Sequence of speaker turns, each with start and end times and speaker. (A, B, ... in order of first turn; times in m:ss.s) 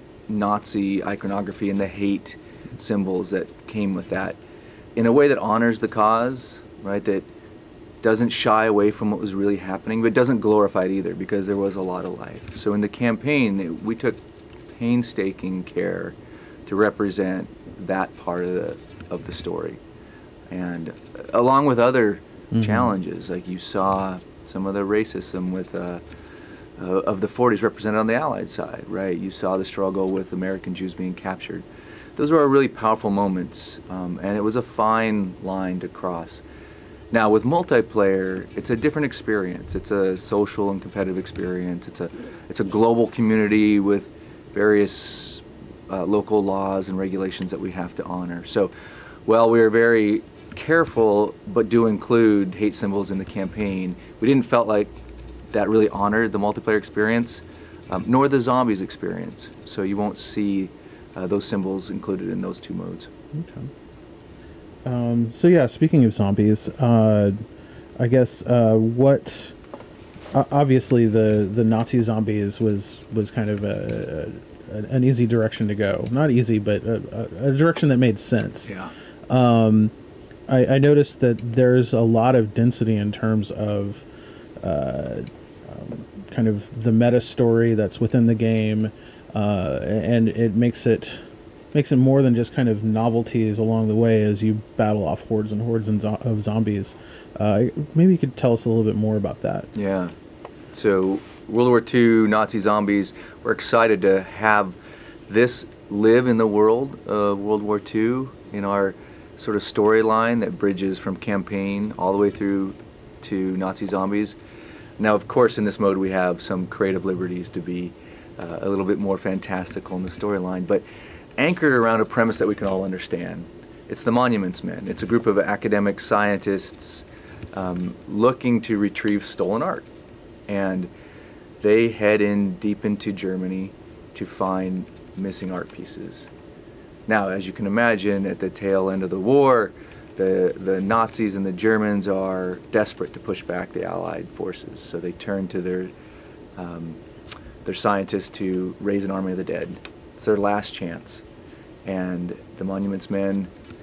0:00.3-0:04.4 A
0:05.0-0:07.3 A
0:08.0-0:14.2 A
0:14.7-0:19.8 A
0:20.5-0:26.0 A
0:22.5-0:22.9 B
0:26.8-0:31.6 A
0:32.2-0:36.4 A
0:37.1-0:48.7 A
0:49.3-0:54.9 A
0:55.5-1:03.1 A
1:03.3-1:03.7 B
1:04.8-1:07.4 B
1:08.0-1:09.6 B
1:10.3-1:18.7 B
1:18.7-1:18.9 A
1:19.3-1:19.9 B
1:20.5-1:24.0 B
1:24.6-1:39.7 B
1:39.7-1:40.1 A
1:40.7-1:44.8 A
1:45.3-1:54.4 A
1:55.0-2:00.8 A
2:01.4-2:09.9 A
2:10.5-2:10.9 A
2:11.6-2:16.3 A
2:17.1-2:25.9 A
2:26.6-2:27.0 A
2:27.6-2:31.2 A
2:31.8-2:33.5 A